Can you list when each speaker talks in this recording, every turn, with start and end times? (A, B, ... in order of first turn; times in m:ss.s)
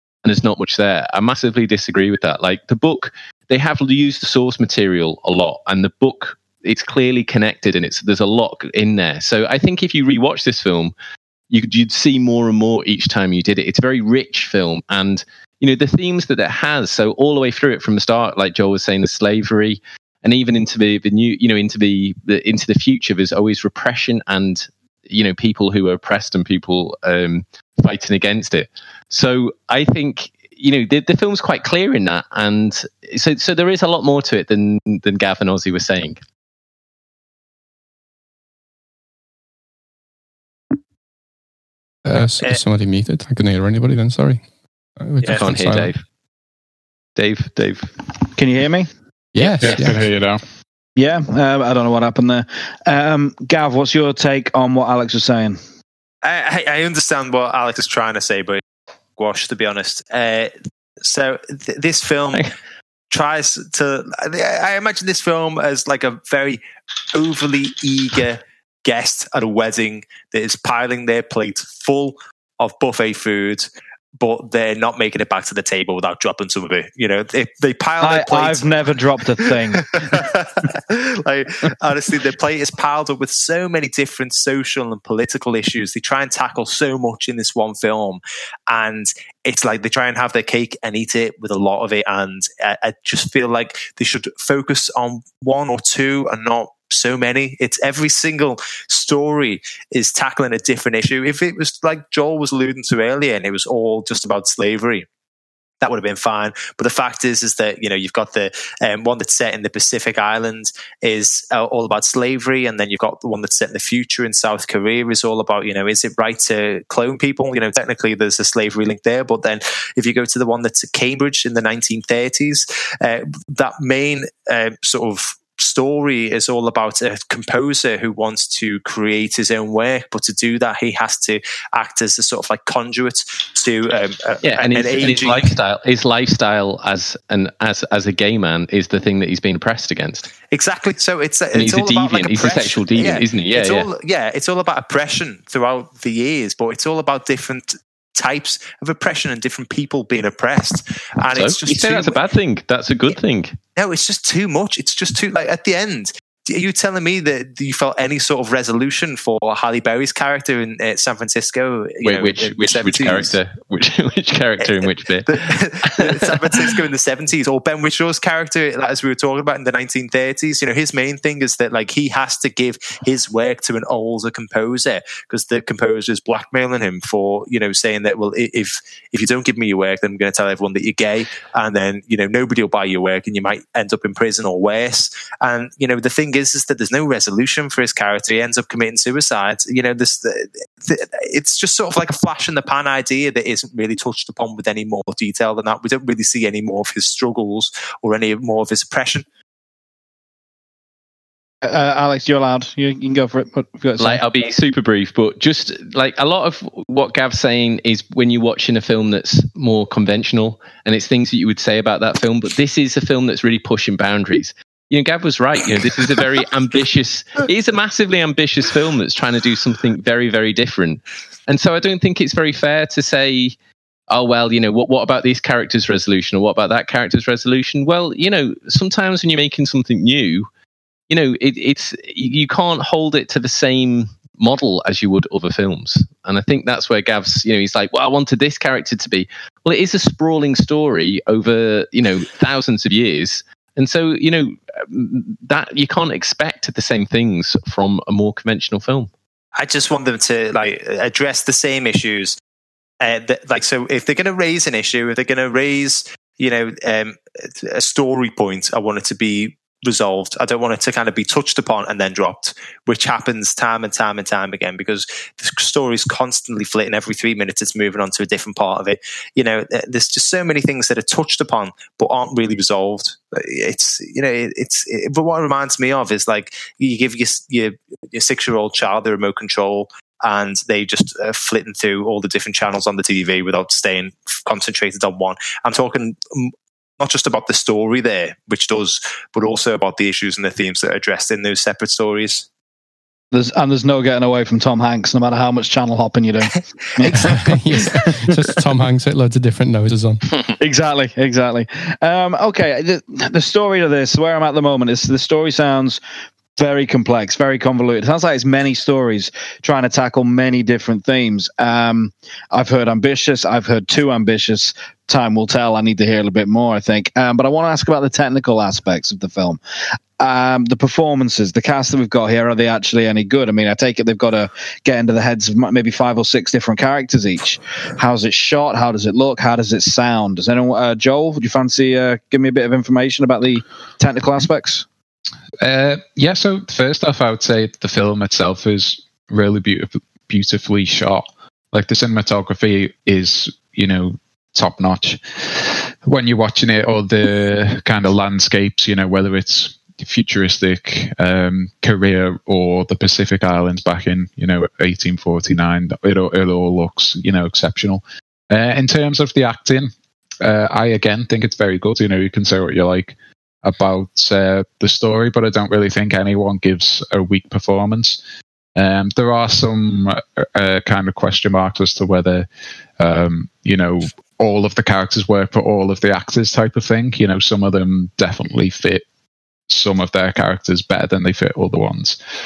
0:00.2-0:10.9 A
0:11.5-0:36.2 A
0:42.0-0:44.4 B
0:45.0-0:45.9 B
0:45.3-0:46.0 A
0:47.2-0:47.9 A
0:48.4-0:48.9 C
0:49.4-0:50.0 B
0:49.6-0:50.4 D
0:51.0-0:55.6 C
0:56.2-0:58.6 E
0:59.2-1:02.5 E
1:03.1-1:06.6 E
1:07.1-1:18.7 E
1:18.0-1:20.2 C
1:19.5-1:45.1 E
1:45.8-2:15.6 E
2:14.4-2:20.3 A
2:20.5-2:32.2 E
2:21.5-2:23.9 A
2:31.4-2:33.6 A
2:33.8-2:43.4 E
2:42.0-2:46.7 A
2:44.6-3:19.2 E
3:21.6-3:24.2 C
3:24.0-3:43.6 A
3:44.1-3:50.5 A
3:51.1-4:09.1 A
4:09.6-4:12.4 E
4:13.0-4:52.5 E
4:53.3-4:58.3 C
4:57.0-4:57.4 E
4:57.2-5:00.2 B
5:00.6-5:06.0 C
5:06.6-5:19.6 C
5:20.2-5:34.8 C
5:35.6-6:08.2 D
6:08.8-6:12.5 D
6:13.0-6:19.1 D
6:19.7-6:22.2 D